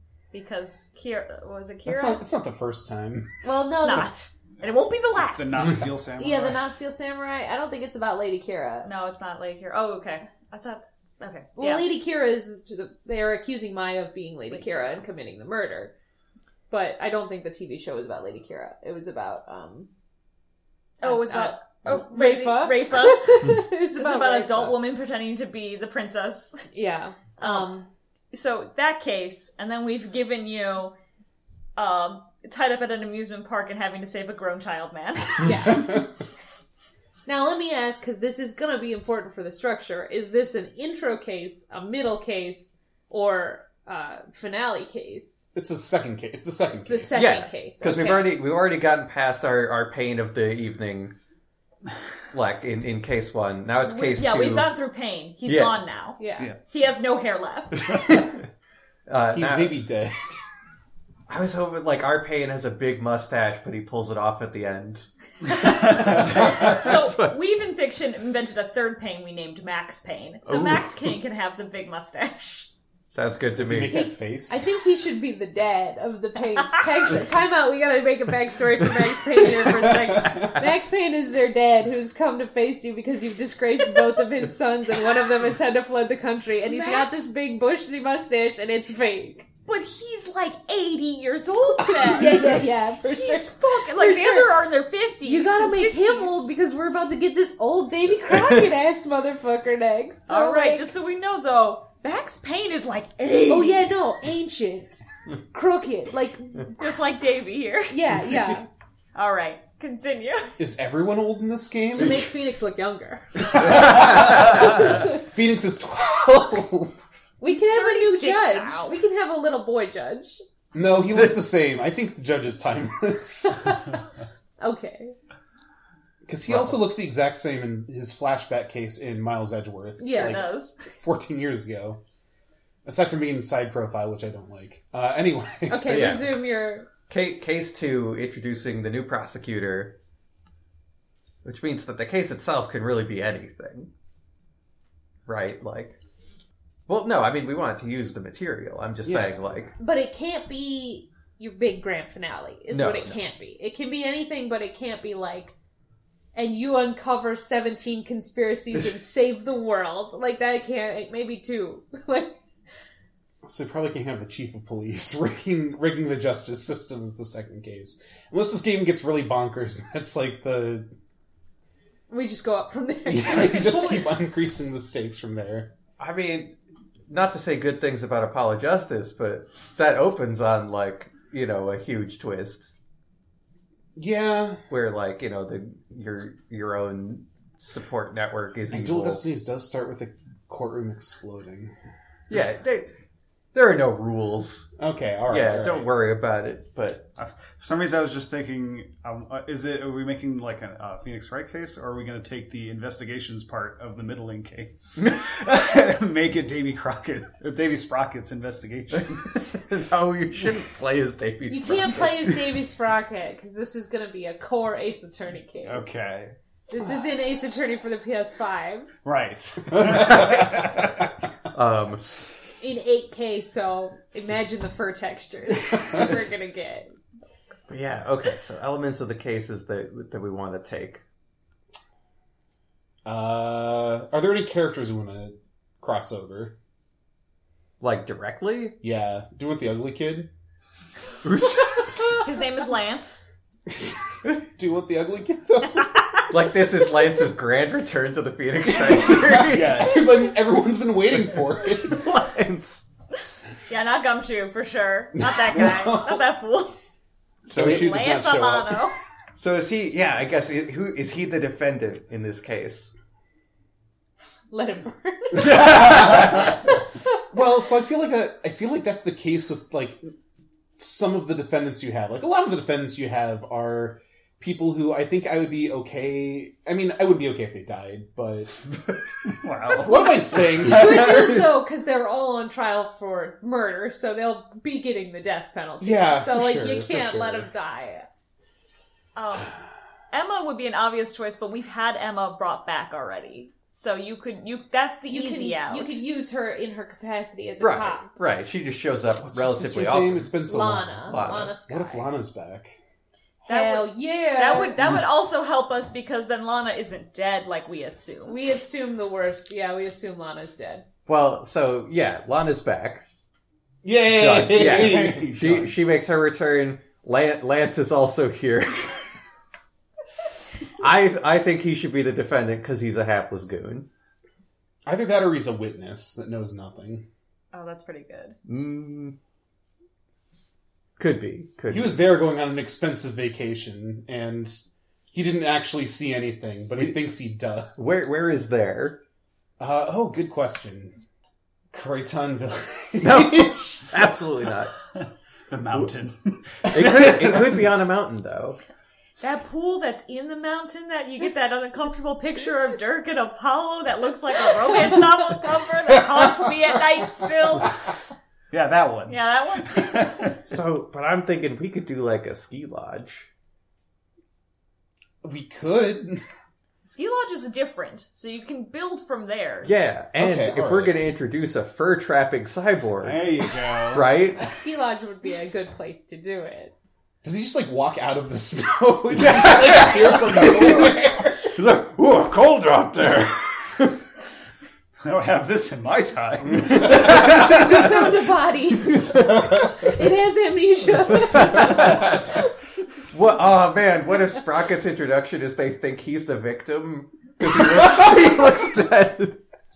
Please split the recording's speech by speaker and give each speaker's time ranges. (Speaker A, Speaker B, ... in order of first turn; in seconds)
Speaker A: 0.3-2.2, 3.8-5.8, 8.8-11.9, 14.5-15.0, 21.0-26.7, 27.4-27.7, 28.3-30.9, 31.8-35.8, 53.8-58.0, 66.2-72.7, 86.7-87.3, 89.7-96.5, 100.3-103.9, 106.8-108.0, 109.2-110.5, 117.5-119.0, 130.1-130.8, 242.2-243.3, 253.7-256.8, 257.6-259.0, 289.1-289.5, 290.1-296.0, 303.5-308.4, 327.5-328.4, 349.2-358.0, 359.1-360.1, 366.9-369.7
Speaker B: 1.9-3.5, 45.5-47.2, 59.3-60.3, 73.6-74.7, 79.7-80.5, 92.0-92.6, 110.6-112.3, 113.6-117.0, 120.7-123.8, 126.3-132.0, 132.8-136.2, 149.0-149.4, 163.4-170.9, 173.1-175.7, 184.0-184.6, 188.7-191.7, 194.8-195.9, 219.8-220.1, 233.1-236.6, 238.8-240.3, 244.6-245.9, 248.9-252.1, 255.2-256.2, 257.5-258.9, 265.4-266.6, 267.3-270.1, 270.8-278.7, 279.7-281.4, 285.8-287.5, 299.2-302.8, 313.8-315.3, 324.9-327.1, 331.7-337.8, 339.6-341.0, 341.7-344.2, 365.2-366.2, 370.2-371.1, 377.2-381.5
Speaker C: 3.4-4.3, 6.2-8.9, 11.6-15.9, 16.7-19.9, 21.0-24.8, 26.7-27.9, 35.4-36.0, 37.3-45.5, 46.9-48.3, 56.2-56.5, 73.9-89.5, 92.0-94.5, 95.2-100.9, 103.5-106.8, 107.9-108.7, 111.9-115.2, 117.4-120.4, 124.6-125.1, 130.0-130.4, 135.7-136.9, 149.8-155.5, 156.3-162.4, 172.1-174.1, 211.5-215.9, 216.7-218.9, 222.6-226.9, 264.5-266.5, 279.9-288.1, 295.1-298.1, 300.5-302.2, 303.5-304.9, 308.3-310.9, 374.4-376.7, 387.1-392.4
Speaker D: 5.2-6.8, 197.2-209.5, 215.7-216.4, 219.0-221.0, 249.3-250.1, 265.7-266.3, 279.4-281.1, 314.5-315.7, 345.5-347.5, 358.5-360.4, 373.0-374.1, 385.0-387.6
Speaker E: 47.1-51.1, 52.3-54.7, 55.5-55.8, 57.9-58.4, 59.1-59.8, 61.3-67.3, 70.5-71.0, 73.1-74.0, 114.1-114.4, 135.9-136.4, 137.1-139.9, 141.4-143.9, 145.3-146.0, 146.9-149.7, 152.7-153.2, 176.0-182.8, 184.7-189.2, 192.3-192.9, 193.5-194.7, 195.3-197.1, 209.1-212.6, 220.1-220.9, 221.5-222.2, 227.7-231.0, 237.8-238.8, 241.2-242.2, 246.3-250.2, 251.7-252.9, 257.5-257.9, 259.4-262.9, 297.6-300.3, 301.1-301.6, 311.1-313.0, 314.1-319.1, 320.8-323.9, 328.5-329.2, 331.0-332.0, 337.8-339.0, 343.0-344.7, 346.7-348.6, 360.5-363.3, 369.6-374.6, 379.2-384.0, 386.7-388.1, 388.9-389.7, 391.1-392.4, 393.1-399.4